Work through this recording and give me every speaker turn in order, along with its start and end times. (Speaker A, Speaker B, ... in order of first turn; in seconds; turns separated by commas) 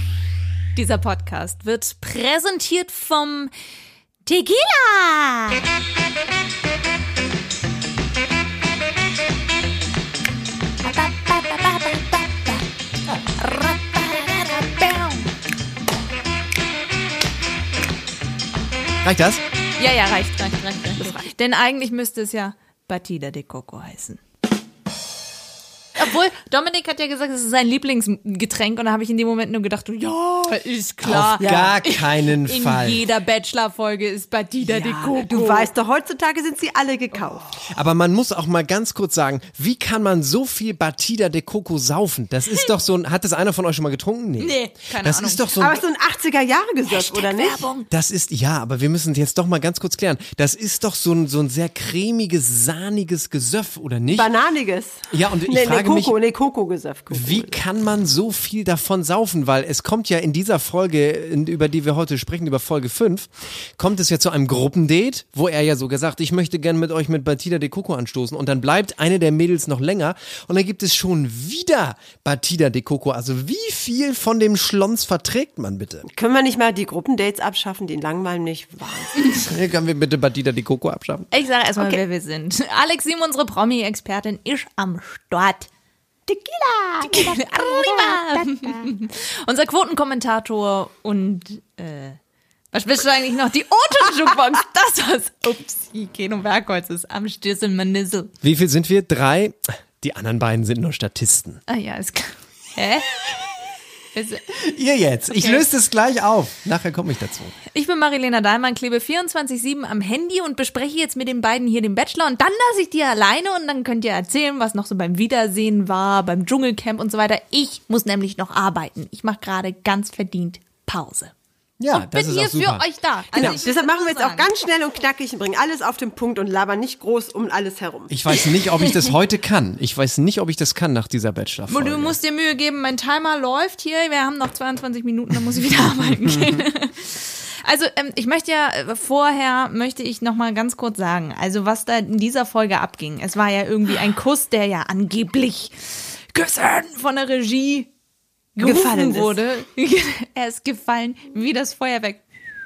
Speaker A: 0.8-3.5, Speaker A: 4.3-5.6, Speaker A: 10.8-12.6, Speaker A: 13.4-15.3, Speaker B: 19.0-19.4, Speaker A: 19.8-24.2, Speaker C: 21.0-21.3, Speaker A: 26.0-35.7, Speaker B: 31.0-33.0, Speaker C: 31.4-31.8, Speaker C: 34.7-37.5, Speaker B: 37.7-45.8, Speaker A: 44.4-45.5, Speaker C: 45.6-47.6, Speaker A: 46.9-47.9, Speaker B: 47.9-54.3, Speaker C: 54.1-57.6, Speaker B: 55.1-56.1, Speaker B: 57.1-76.1, Speaker C: 76.1-79.4, Speaker B: 79.5-81.3, Speaker A: 81.3-85.7, Speaker C: 86.3-88.9, Speaker A: 87.0-92.2, Speaker A: 92.7-98.3, Speaker B: 98.4-101.6, Speaker A: 101.7-103.3, Speaker A: 104.1-104.5, Speaker B: 104.6-107.5, Speaker A: 105.3-105.7, Speaker A: 107.7-121.3, Speaker B: 121.8-123.6, Speaker A: 121.9-124.5, Speaker C: 123.3-128.1, Speaker B: 128.1-132.2, Speaker A: 131.7-147.9, Speaker B: 136.0-136.6, Speaker A: 148.6-152.2, Speaker C: 148.6-149.4